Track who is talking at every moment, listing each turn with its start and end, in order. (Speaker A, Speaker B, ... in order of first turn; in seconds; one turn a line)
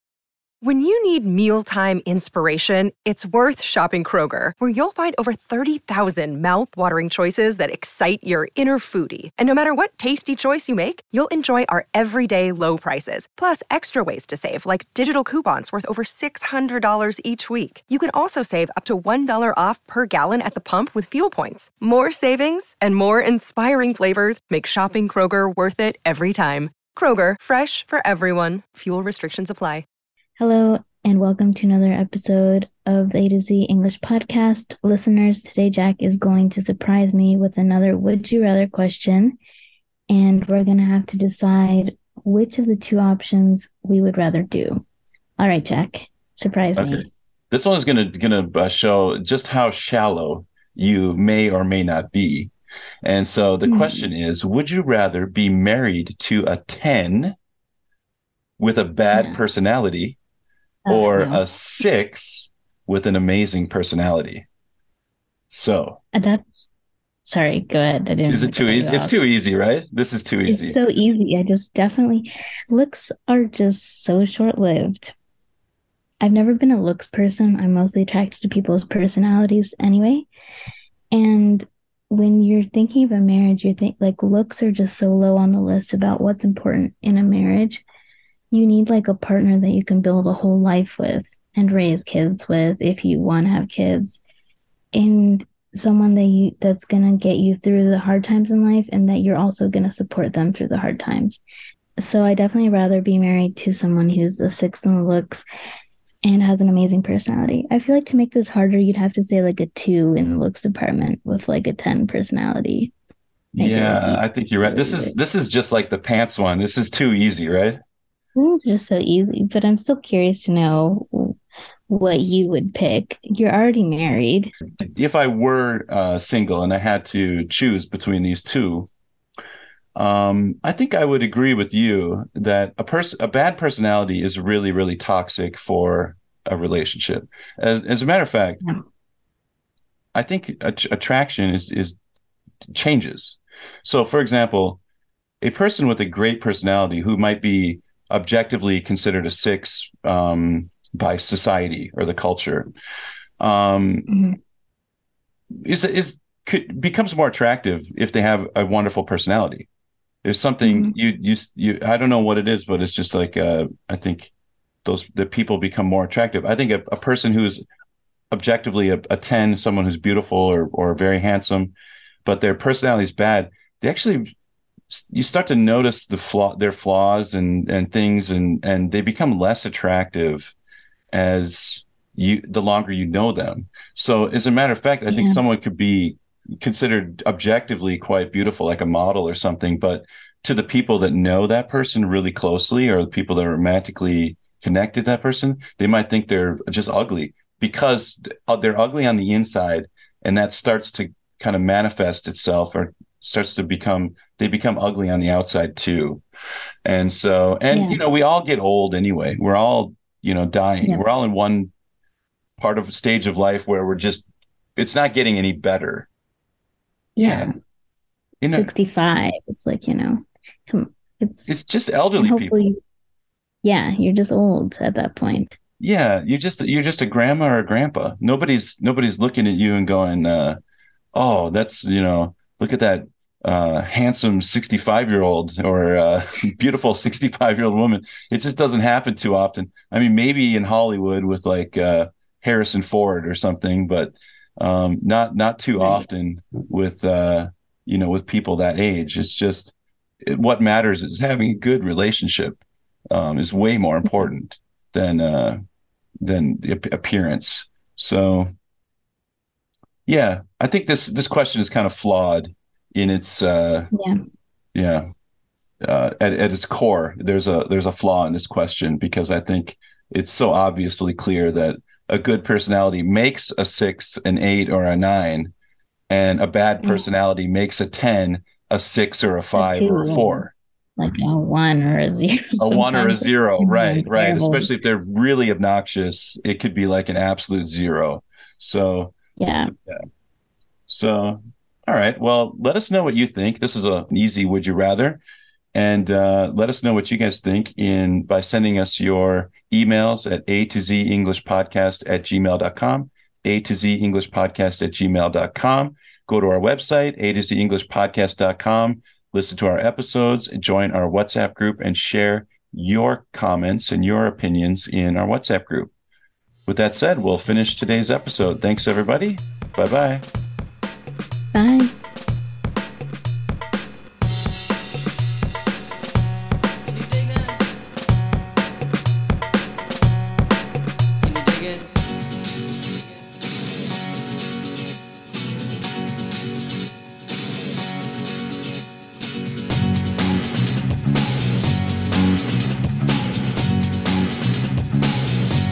Speaker A: 0.6-29.8
Speaker B: 30.4-39.4
Speaker B: 40.1-44.8
Speaker B: 45.4-47.1
Speaker C: 46.8-52.5
Speaker C: 53.0-57.3
Speaker B: 53.6-54.1
Speaker C: 58.6-60.2
Speaker B: 59.1-59.4
Speaker B: 60.9-61.4
Speaker C: 60.9-64.4
Speaker C: 65.5-66.0
Speaker B: 66.1-66.7
Speaker B: 67.2-69.2
Speaker C: 68.3-70.8
Speaker B: 70.5-75.1
Speaker B: 76.2-80.3
Speaker B: 81.1-87.8
Speaker B: 88.5-94.2
Speaker B: 94.9-101.4
Speaker B: 102.0-105.4
Speaker B: 106.2-112.9
Speaker C: 113.5-117.8
Speaker B: 113.6-115.1
Speaker B: 118.3-121.4
Speaker B: 121.9-124.5
Speaker C: 124.8-128.9
Speaker C: 129.9-138.6
Speaker C: 140.1-142.0
Speaker C: 142.7-144.8
Speaker C: 145.4-152.7
Speaker C: 153.4-154.1
Speaker B: 154.1-154.3
Speaker C: 155.6-159.7
Speaker C: 160.2-164.3
Speaker B: 160.6-160.9
Speaker C: 164.8-167.6
Speaker C: 168.3-171.7
Speaker C: 172.2-174.3
Speaker C: 174.9-180.5
Speaker C: 181.1-206.2
Speaker B: 185.1-185.4
Speaker C: 206.8-211.7
Speaker B: 207.7-208.0
Speaker C: 212.6-216.1
Speaker B: 217.2-217.5
Speaker C: 217.2-217.5
Speaker C: 218.4-218.7
Speaker B: 218.5-221.6
Speaker C: 221.5-222.5
Speaker B: 222.2-222.7
Speaker B: 223.6-225.5
Speaker C: 225.8-230.6
Speaker C: 231.1-255.6
Speaker B: 245.8-246.0
Speaker C: 256.2-258.5
Speaker C: 260.1-263.9
Speaker C: 264.7-265.1
Speaker C: 265.8-275.5
Speaker C: 276.1-280.5
Speaker B: 276.8-277.1
Speaker B: 279.5-280.5
Speaker B: 281.0-284.7
Speaker C: 282.6-289.1
Speaker B: 289.4-289.7
Speaker C: 290.9-295.2
Speaker C: 295.7-315.9
Speaker C: 316.7-320.2
Speaker B: 321.5-321.9